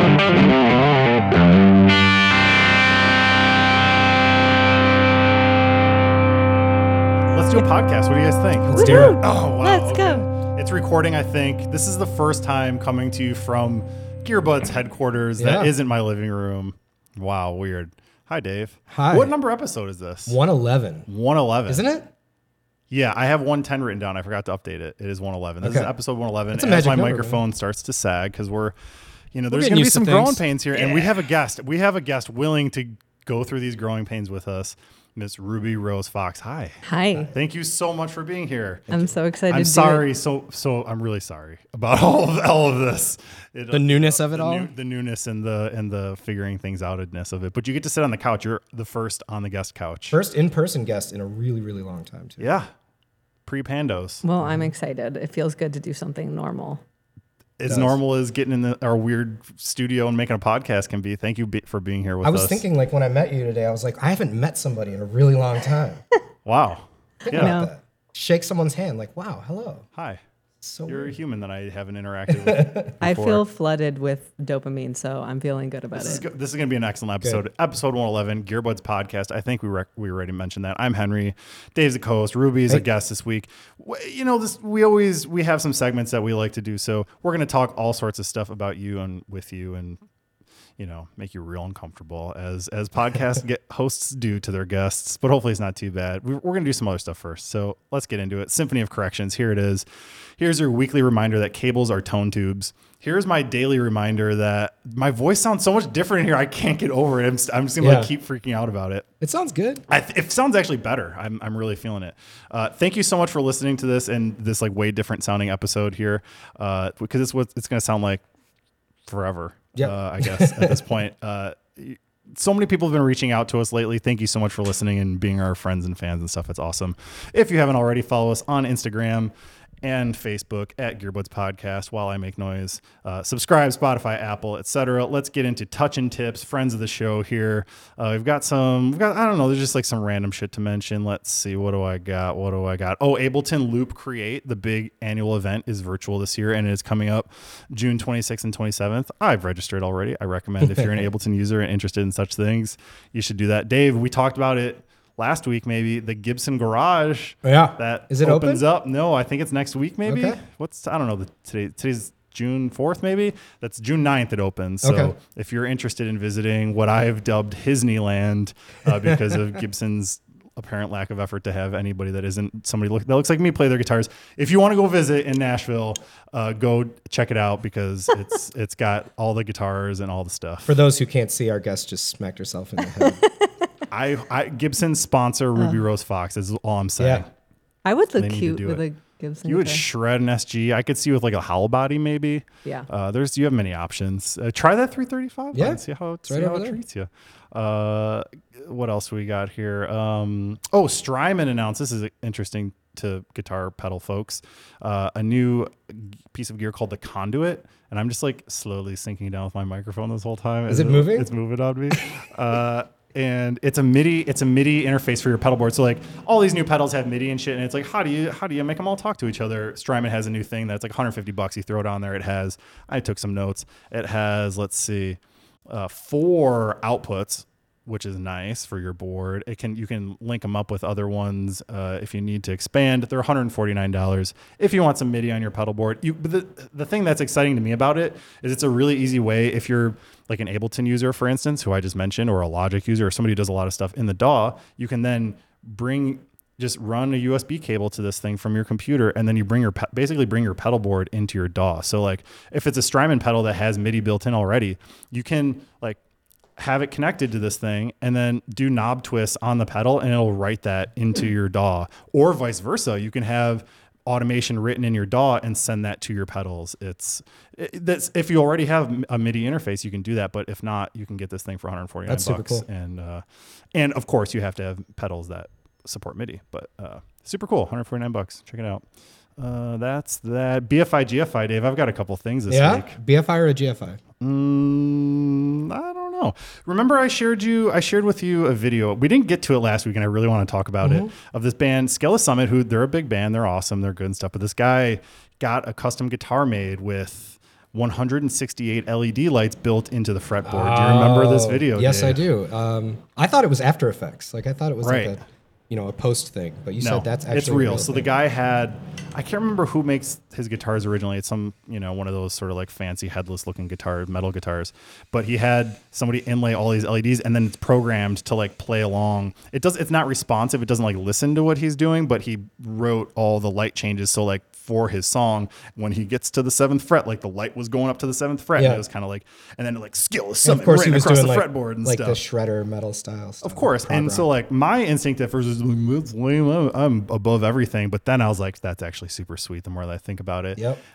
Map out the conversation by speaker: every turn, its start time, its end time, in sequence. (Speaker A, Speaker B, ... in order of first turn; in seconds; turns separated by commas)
Speaker A: 7.3-20.4, Speaker B: 8.6-9.2, Speaker C: 8.7-10.3, Speaker B: 15.4-15.7, Speaker B: 18.9-19.3, Speaker B: 20.3-21.1, Speaker A: 21.1-21.9, Speaker B: 21.7-22.1, Speaker A: 22.9-28.7, Speaker B: 25.6-25.9, Speaker B: 26.5-27.4, Speaker A: 29.3-36.8, Speaker B: 29.5-31.2, Speaker C: 36.8-37.3, Speaker A: 37.3-38.9, Speaker C: 38.9-40.0, Speaker A: 39.5-50.2, Speaker B: 43.7-44.7, Speaker B: 50.1-52.6, Speaker A: 52.4-52.7, Speaker A: 53.5-54.2, Speaker C: 54.2-56.8, Speaker B: 54.4-54.7, Speaker A: 57.6-62.6, Speaker B: 57.7-58.0, Speaker B: 62.2-66.0, Speaker A: 66.5-67.6, Speaker B: 67.2-69.8, Speaker C: 67.3-67.7, Speaker B: 70.6-71.1, Speaker A: 70.9-73.4, Speaker B: 72.3-72.9, Speaker C: 73.0-76.2, Speaker A: 75.9-90.0, Speaker A: 90.8-99.8, Speaker A: 100.4-109.0, Speaker B: 107.8-108.1, Speaker B: 109.2-109.8, Speaker A: 109.9-118.2, Speaker A: 119.1-180.8, Speaker B: 119.8-120.8, Speaker B: 150.6-151.1, Speaker B: 157.4-158.6, Speaker B: 160.1-160.4, Speaker B: 164.8-165.1, Speaker B: 180.6-183.2, Speaker C: 183.0-183.5, Speaker A: 183.9-187.3, Speaker B: 187.0-187.2, Speaker C: 187.8-189.8, Speaker A: 188.2-188.8, Speaker A: 189.4-256.0, Speaker B: 195.5-196.8, Speaker B: 210.7-211.3, Speaker A: 256.6-273.2, Speaker B: 272.1-272.6, Speaker A: 273.7-278.8, Speaker A: 279.4-282.9, Speaker B: 282.5-284.0, Speaker A: 284.2-302.2, Speaker B: 290.8-291.1, Speaker B: 300.4-308.1, Speaker A: 304.8-305.1, Speaker A: 306.8-332.2, Speaker B: 328.6-328.8, Speaker B: 330.4-334.3, Speaker A: 333.4-340.6